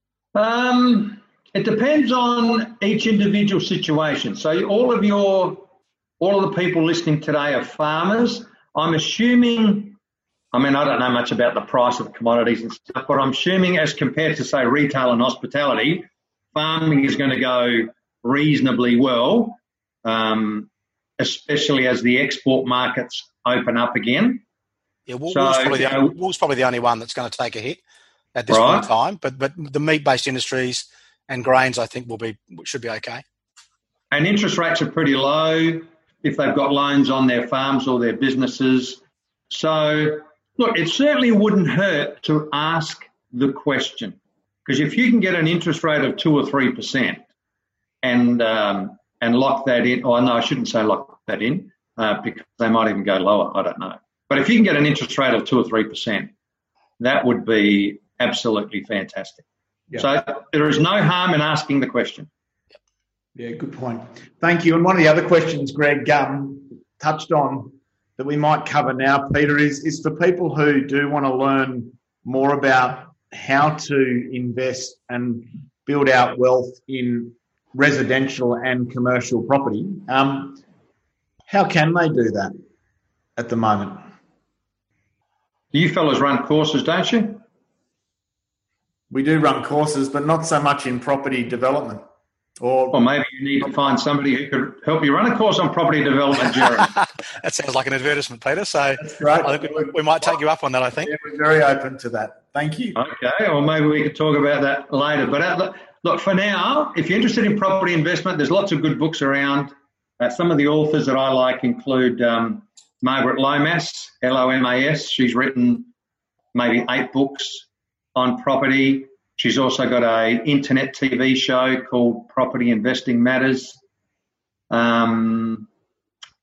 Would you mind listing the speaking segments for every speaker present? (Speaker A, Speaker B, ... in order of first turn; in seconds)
Speaker A: 0.3-5.7, 6.2-10.0, 10.5-24.4, 25.3-26.1, 28.5-28.9, 34.1-47.2, 48.0-56.3, 57.0-59.4, 60.0-62.3, 85.7-87.4, 92.9-96.9, 102.9-115.9, 116.5-123.8, 124.7-125.7
Speaker B: 25.1-27.8, 28.3-33.2, 96.8-101.1
Speaker C: 63.4-80.6, 81.5-82.5, 83.3-84.0, 89.1-92.0, 92.6-93.0, 99.0-100.3, 101.0-103.0